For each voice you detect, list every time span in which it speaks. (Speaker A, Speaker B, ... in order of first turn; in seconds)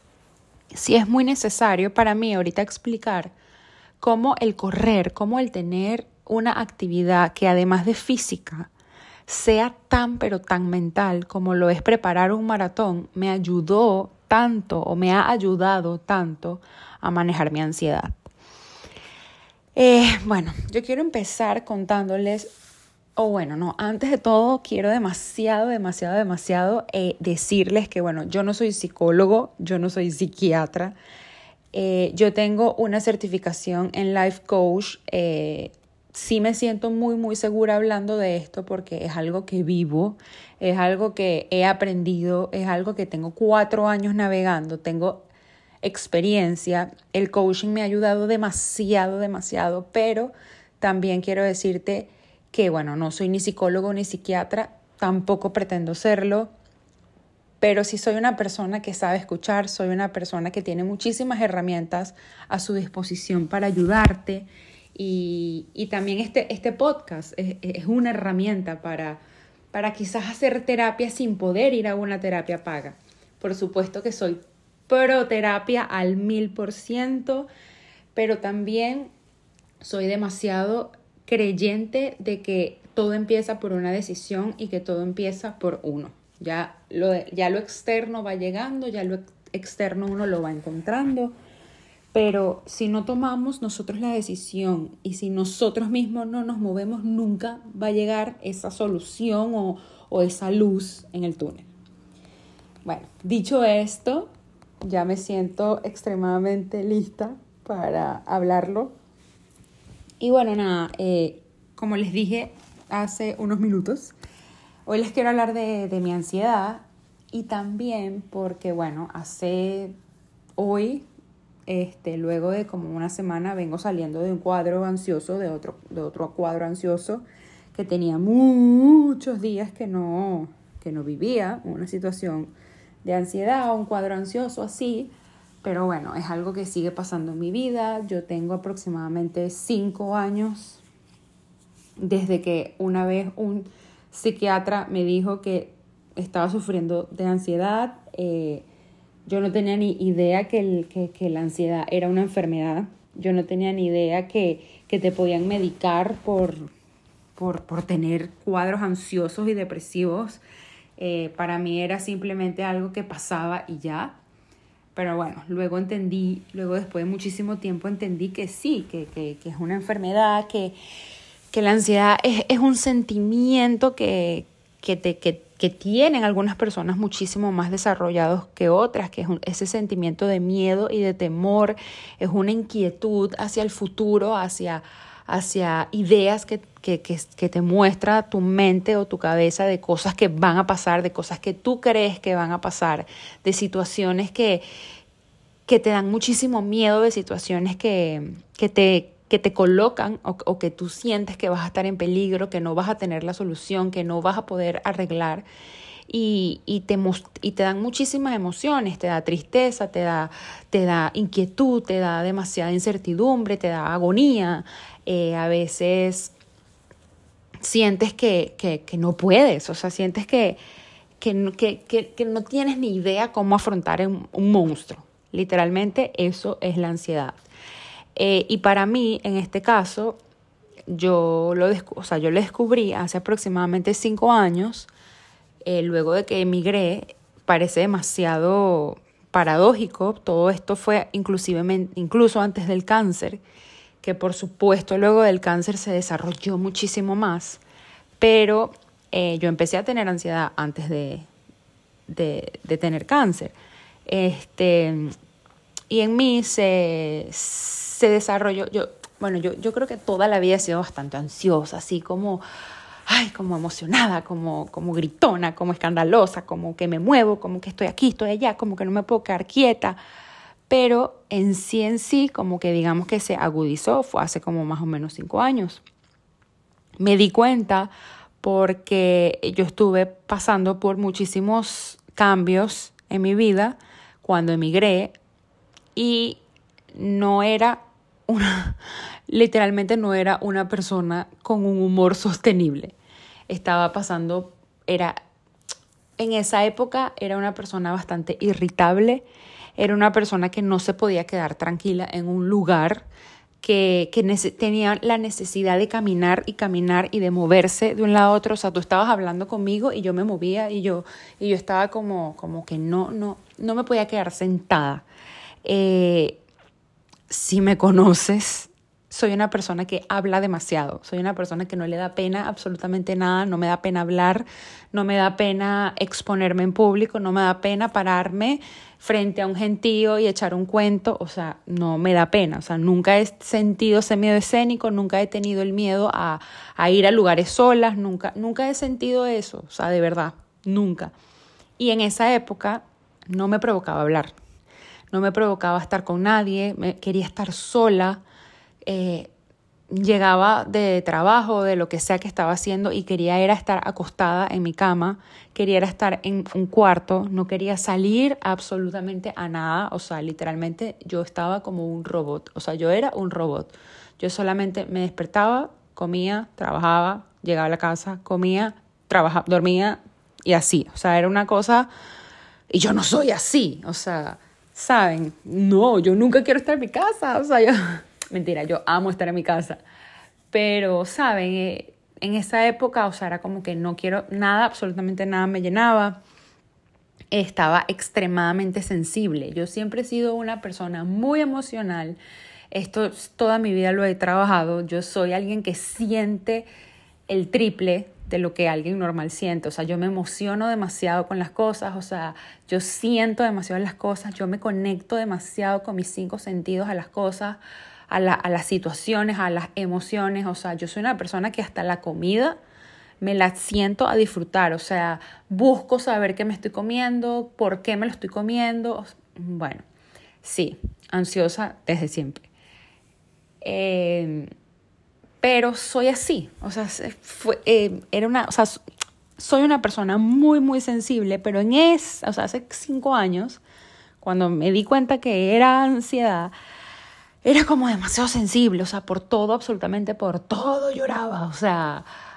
Speaker A: 0.7-3.3, 4.0-8.7, 9.3-18.3, 19.8-22.5, 23.1-30.9, 31.7-45.2, 45.8-56.5, 57.6-69.2, 69.7-77.5, 78.1-79.1, 79.8-91.3, 92.1-101.7, 102.8-104.3, 104.8-108.9, 110.2-114.1, 114.8-119.9, 120.6-121.1, 121.7-132.5, 133.0-135.1, 135.6-140.8, 142.0-148.6, 149.3-156.7, 157.4-160.4, 161.0-164.2, 164.9-170.8, 171.5-194.6, 195.7-205.4, 206.1-216.3, 217.6-220.6, 221.2-227.4, 228.1-230.2, 230.9-234.9, 235.6-243.4, 244.0-247.6, 248.2-251.3, 252.1-253.5, 254.1-255.1, 255.9-262.4, 263.1-270.0, 270.7-275.8, 277.0-277.9, 278.4-285.1, 285.9-286.4, 286.9-292.9, 293.5-295.1, 296.2-299.2, 299.8-303.1, 303.6-315.0, 315.6-316.4, 317.3-341.1, 341.8-344.3, 345.1-348.2, 348.8-349.3, 349.9-371.9, 372.7-379.8, 380.5-386.2, 387.3-392.2, 392.7-396.7, 397.3-412.6, 413.2-419.8, 420.4-422.5, 423.6-424.5, 425.4-428.8, 429.4-433.6, 434.2-436.5, 437.4-442.1